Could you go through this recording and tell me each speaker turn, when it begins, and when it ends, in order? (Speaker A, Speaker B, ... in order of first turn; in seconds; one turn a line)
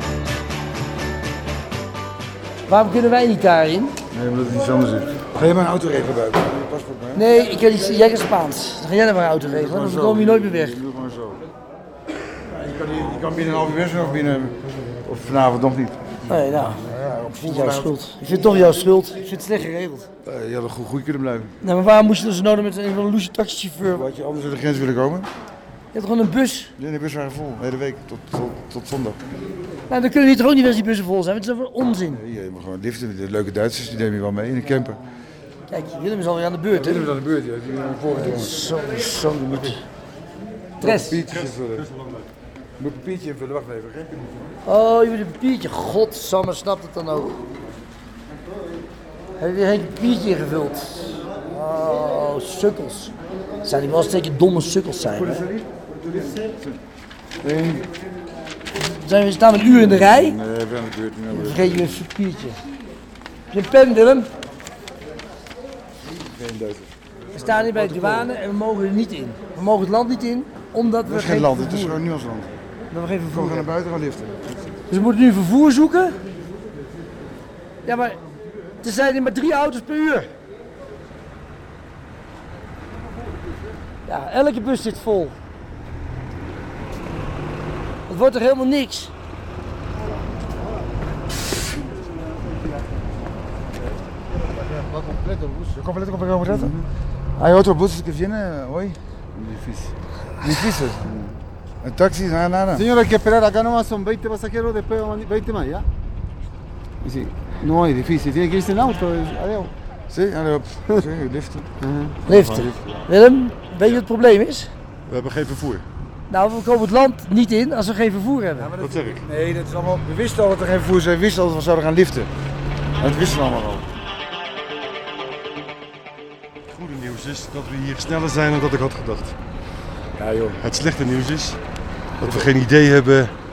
Speaker A: 2.7-3.9
Speaker B: 4.1-7.2
Speaker A: 7.1-10.8
Speaker B: 9.4-11.5
Speaker B: 12.5-16.0
Speaker A: 16.3-16.8
Speaker B: 16.8-18.0
Speaker A: 17.4-20.1
Speaker B: 20.2-21.5
Speaker A: 21.6-24.0
Speaker B: 23.9-25.3
Speaker A: 25.9-26.7
Speaker B: 26.8-29.2
Speaker A: 29.9-32.2
Speaker B: 32.1-35.0
Speaker A: 35.7-37.1
Speaker B: 36.7-38.6
Speaker A: 38.1-39.8
Speaker B: 40.8-41.9
Speaker A: 40.8-41.2
Speaker C: 41.4-42.3
Speaker B: 42.8-44.5
Speaker A: 44.6-47.4
Speaker A: 49.4-55.5
Speaker B: 55.1-56.8
Speaker B: 57.4-57.9
Speaker A: 58.8-60.4
Speaker B: 59.7-62.0
Speaker A: 61.3-62.6
Speaker A: 63.5-64.3
Speaker B: 66.0-66.9
Speaker A: 67.3-72.0
Speaker B: 67.6-68.3
Speaker B: 71.0-72.5
Speaker A: 72.9-73.7
Speaker B: 73.3-74.4
Speaker A: 74.9-76.2
Speaker A: 77.8-78.2
Speaker A: 78.8-80.3
Speaker A: 84.0-85.4
Speaker A: 88.1-89.1
Speaker D: 94.3-95.7
Speaker B: 95.7-96.8
Speaker D: 96.5-96.9
Speaker B: 97.4-99.0
Speaker D: 99.4-99.9
Speaker B: 100.4-101.1
Speaker D: 101.1-101.4
Speaker B: 101.8-102.9
Speaker D: 102.7-105.9
Speaker D: 107.0-109.7
Speaker B: 110.1-111.7
Speaker D: 111.8-112.2
Speaker A: 112.2-114.7
Speaker B: 112.3-112.8
Speaker C: 115.1-115.9
Speaker A: 116.3-118.7
Speaker B: 118.6-122.3
Speaker C: 118.8-119.2
Speaker B: 123.0-123.9
Speaker C: 126.7-129.4
Speaker B: 130.2-130.6
Speaker C: 130.5-131.6
Speaker C: 132.2-133.3